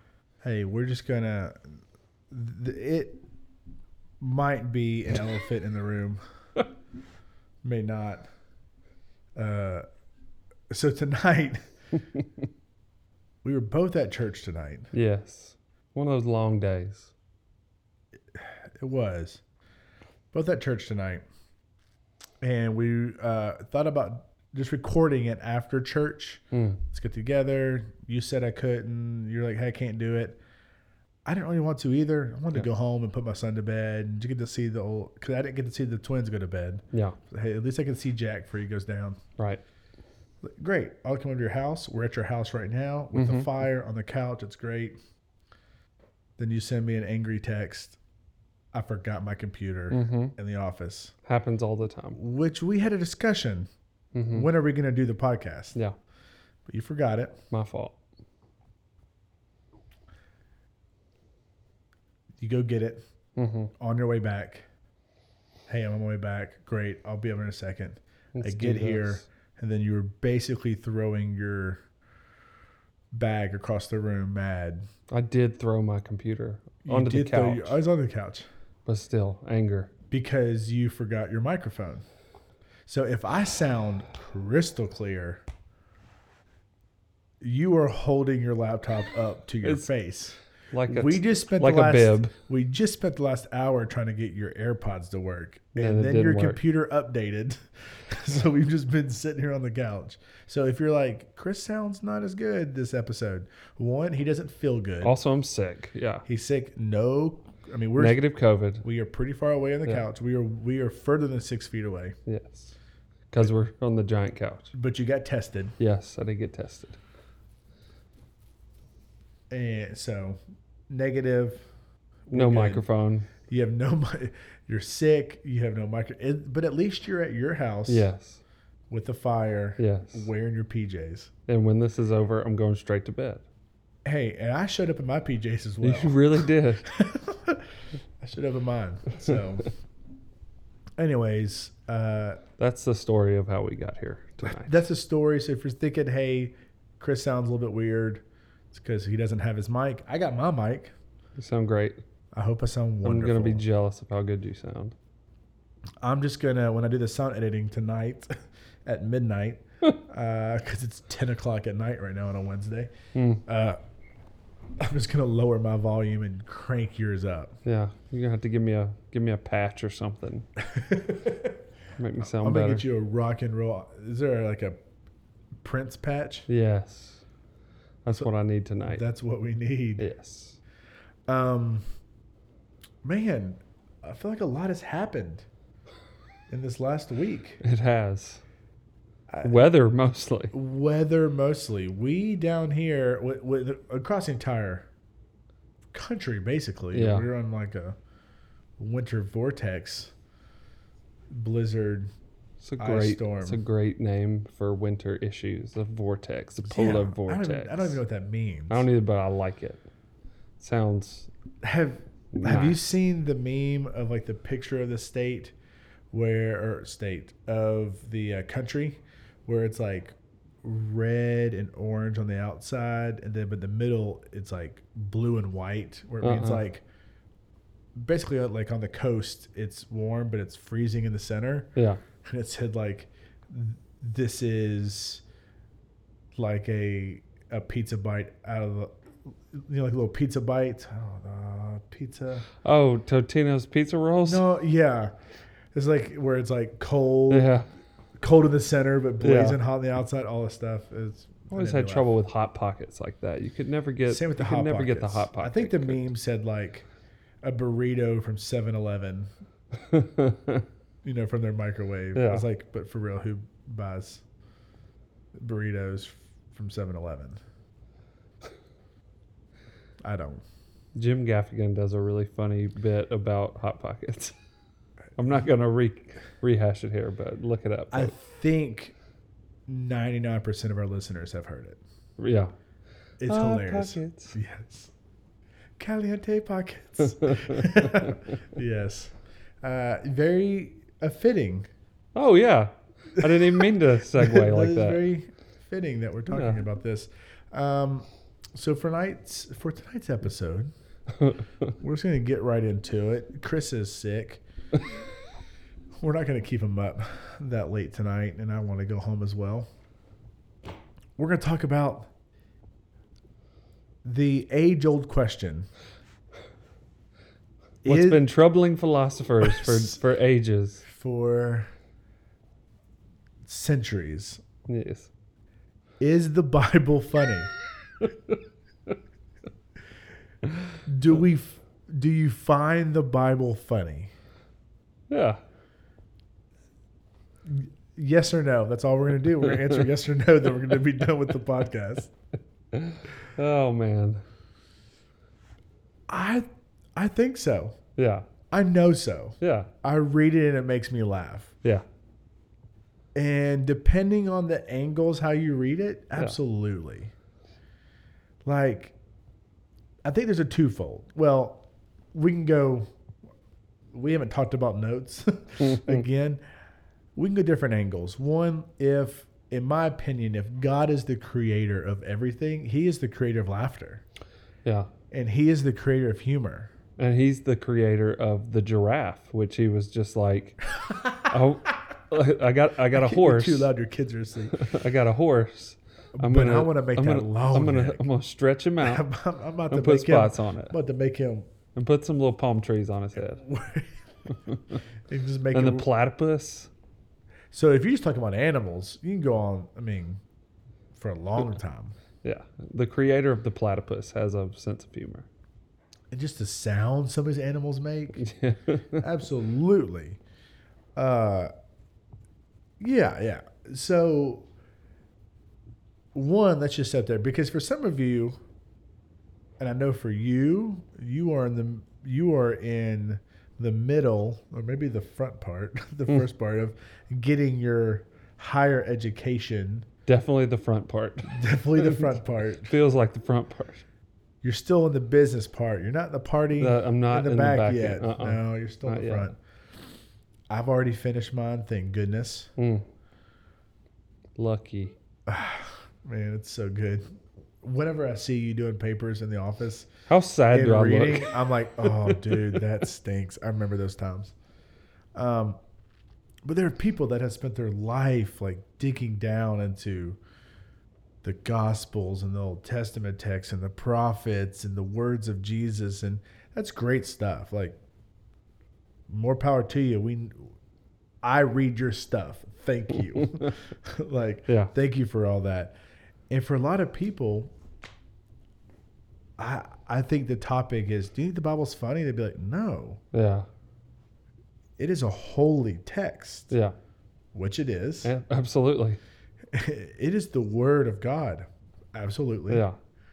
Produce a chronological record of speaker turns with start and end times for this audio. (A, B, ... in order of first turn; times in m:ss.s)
0:00.4-0:01.6 A
0:02.3-0:03.2 A
0:04.2-0:06.2 A
0:07.6-0:08.3 A
0:09.4-0:09.8 A
0:10.7-0:11.7 A
0:13.4-0:14.9 A
0:14.9-0:17.1 B
0:18.3-0:19.4 A
0:20.3-0:21.2 A
0:22.4-0:30.4 A
0:26.5-0:26.8 B
0:31.3-0:39.2 A
0:40.4-0:45.0 A
0:43.1-0:43.6 B
0:46.4-0:48.0 A
0:48.7-0:51.1 A
0:49.9-0:50.4 B
0:51.3-0:52.2 B
0:52.2-0:53.7 A
0:54.1-0:54.5 B
0:54.3-0:55.8 A
0:56.7-0:57.4 A
0:57.5-0:58.0 B
1:02.4-1:03.1 A
1:03.4-1:03.7 B
1:03.8-1:04.6 A
1:05.7-1:11.8 A
1:08.4-1:09.2 B
1:13.1-1:14.9 A
1:15.1-1:17.8 B
1:16.8-1:18.5 A
1:18.9-1:19.9 B
1:20.1-1:22.0 A
1:22.9-1:25.4 A
1:27.4-1:45.1 A
1:29.6-1:29.9 B
1:30.7-1:32.3 B
1:35.8-1:36.6 B
1:45.0-1:46.3 B
1:46.3-1:48.2 A
1:48.0-1:48.8 B
1:48.8-1:52.2 A
1:52.3-1:52.7 B
1:53.3-1:54.7 B
1:54.7-1:55.8 A
1:55.8-1:57.0 B
1:59.5-2:00.4 A
2:00.9-2:01.6 A
2:02.3-2:02.9 A
2:02.3-2:03.3 B
2:03.5-2:08.1 A
2:07.9-2:08.4 B
2:08.9-2:11.3 A
2:09.8-2:10.3 B
2:11.5-2:13.4 B
2:14.0-2:19.7 A
2:15.8-2:16.9 B
2:21.0-2:22.4 A
2:22.6-2:24.8 B
2:24.4-2:30.9 A
2:31.4-2:32.0 B
2:32.3-2:33.6 A
2:33.0-2:35.0 B
2:36.0-2:38.3 A
2:38.8-2:42.9 A
2:43.2-2:43.4 B
2:43.5-2:43.8 A
2:44.8-2:47.6 A
2:47.6-2:50.5 B
2:50.6-2:51.6 A
2:52.0-2:52.8 B
2:52.2-2:54.8 A
2:55.6-2:56.5 A
2:56.5-2:57.2 B
2:58.0-2:59.0 B
2:58.8-3:00.1 A
3:00.0-3:00.6 B
3:01.3-3:01.8 A
3:03.0-3:05.5 A
3:06.5-3:07.6 A
3:07.6-3:08.4 B
3:09.3-3:09.7 A
3:09.4-3:10.5 B
3:10.5-3:14.9 A
3:15.9-3:18.0 A
3:16.9-3:17.3 B
3:18.8-3:20.1 A
3:21.3-3:22.1 A
3:22.6-3:28.0 B
3:22.8-3:23.6 A
3:26.6-3:28.9 A
3:28.7-3:29.8 B
3:30.6-3:31.3 B
3:31.6-3:35.6 A
3:32.3-3:32.8 B
3:36.1-3:46.8 A
3:46.2-3:46.6 B
3:48.0-3:51.7 A
3:52.2-3:55.2 A
3:56.4-3:59.0 A
3:59.5-4:02.5 A
4:02.6-4:04.4 B
4:04.2-4:05.1 A
4:05.7-4:07.5 A
4:07.3-4:07.7 B
4:08.2-4:12.1 A
4:09.2-4:09.6 B
4:11.5-4:16.1 B
4:14.1-4:16.9 A
4:17.4-4:19.3 A
4:19.9-4:20.7 B
4:21.0-4:24.2 A
4:22.2-4:22.4 B
4:25.4-4:27.4 A
4:30.0-4:30.4 A
4:31.0-4:34.4 B
4:35.2-4:38.1 B
4:37.9-4:38.9 A
4:39.7-4:41.8 A
4:42.2-4:42.5 B
4:43.2-4:44.9 A
4:43.3-4:44.4 B
4:45.8-4:51.7 A
4:47.2-4:48.2 B
4:52.2-4:55.0 B
4:53.2-5:00.7 A
4:56.3-4:56.6 B
5:01.8-5:04.4 A
5:06.0-5:09.7 A
5:11.2-5:12.1 A
5:14.0-5:15.7 A
5:17.8-5:18.2 A
5:17.8-5:20.8 B
5:19.4-5:20.0 A
5:20.9-5:21.7 A
5:23.5-5:24.4 A
5:24.7-5:25.1 B
5:26.0-5:27.5 A
5:28.0-5:28.4 B
5:30.9-5:34.1 A
5:35.1-5:35.4 B
5:37.4-5:42.1 A
5:39.5-5:39.8 B
5:42.7-5:44.2 B
5:46.1-5:47.8 A
5:48.0-5:48.3 B
5:48.5-5:51.5 A
5:49.4-5:49.7 B
5:53.2-5:57.1 A
5:58.4-5:59.0 A
6:00.0-6:02.9 A
6:03.9-6:06.4 A
6:05.6-6:06.0 B
6:07.2-6:14.0 A
6:15.1-6:16.7 A
6:17.0-6:20.6 B
6:20.8-6:21.4 A
6:21.3-6:23.7 B
6:22.9-6:24.6 A
6:24.5-6:29.1 B
6:26.2-6:28.0 A
6:28.8-6:31.5 A
6:29.7-6:30.8 B
6:31.8-6:33.4 B
6:33.2-6:33.9 A
6:34.3-6:34.8 B
6:35.1-6:35.9 A
6:35.5-6:36.7 B
6:37.5-6:40.2 A
6:40.9-6:42.0 A
6:42.2-6:45.3 B
6:46.1-6:48.2 A
6:48.2-6:49.0 B
6:48.9-6:50.2 A
6:51.0-6:51.5 A
6:52.8-6:54.5 A
6:56.1-6:58.4 A
6:59.6-7:09.9 A
7:10.1-7:12.2 B
7:11.3-7:12.7 A
7:12.7-7:13.8 B
7:14.4-7:19.4 A
7:16.6-7:19.3 B
7:20.5-7:22.5 A
7:22.6-7:22.8 B
7:24.4-7:24.9 B
7:25.3-7:27.0 A
7:27.6-7:29.9 A
7:30.1-7:32.6 B
7:30.5-7:34.3 A
7:35.2-7:35.6 A
7:36.4-7:40.2 A
7:41.2-7:47.8 A
7:49.1-7:50.5 A
7:51.2-7:55.8 A
7:56.3-7:57.5 A
7:59.4-8:03.0 A
8:03.1-8:03.5 B
8:04.8-8:06.5 A
8:07.3-8:08.1 A
8:08.0-8:09.0 B
8:09.5-8:12.7 A
8:12.5-8:12.8 B